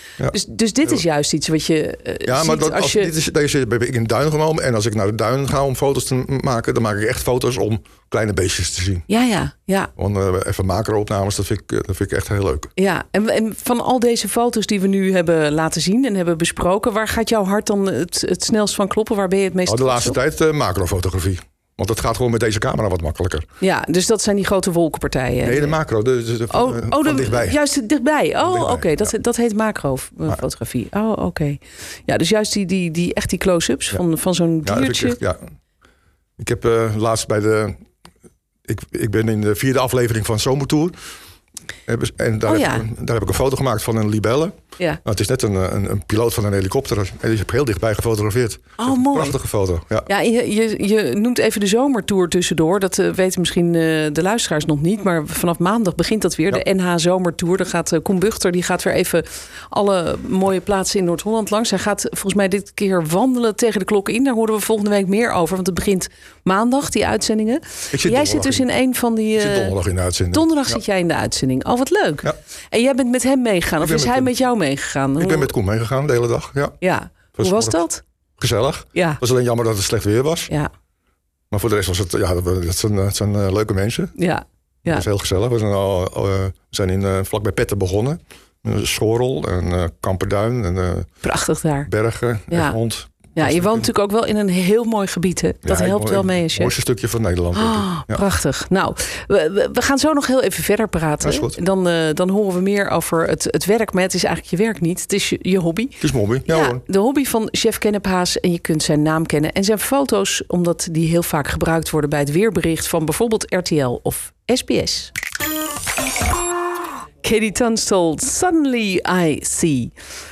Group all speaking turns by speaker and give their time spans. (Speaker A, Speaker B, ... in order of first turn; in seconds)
Speaker A: 0.2-1.0, 2.2-9.1, 10.0-12.7, 19.7-23.4, 25.4-27.6, 28.4-29.1, 34.6-35.4, 36.4-37.8, 38.7-41.0, 41.9-50.1, 67.9-68.7, 69.3-70.8, 73.8-74.3, 75.2-76.8, 77.3-77.8, 78.4-80.5, 81.5-84.1, 84.9-91.1, 91.9-93.9, 95.6-98.2, 101.2-101.6, 106.0-106.8
Speaker B: 0.3-3.1, 9.1-9.9, 12.8-20.2, 23.6-25.8, 26.5-35.2, 42.5-42.9, 48.8-49.4, 50.1-69.8, 70.3-75.5, 76.8-78.0, 78.9-79.2, 84.2-85.1, 91.2-91.9, 92.5-92.8, 93.4-96.7, 97.5-115.1, 117.2-119.9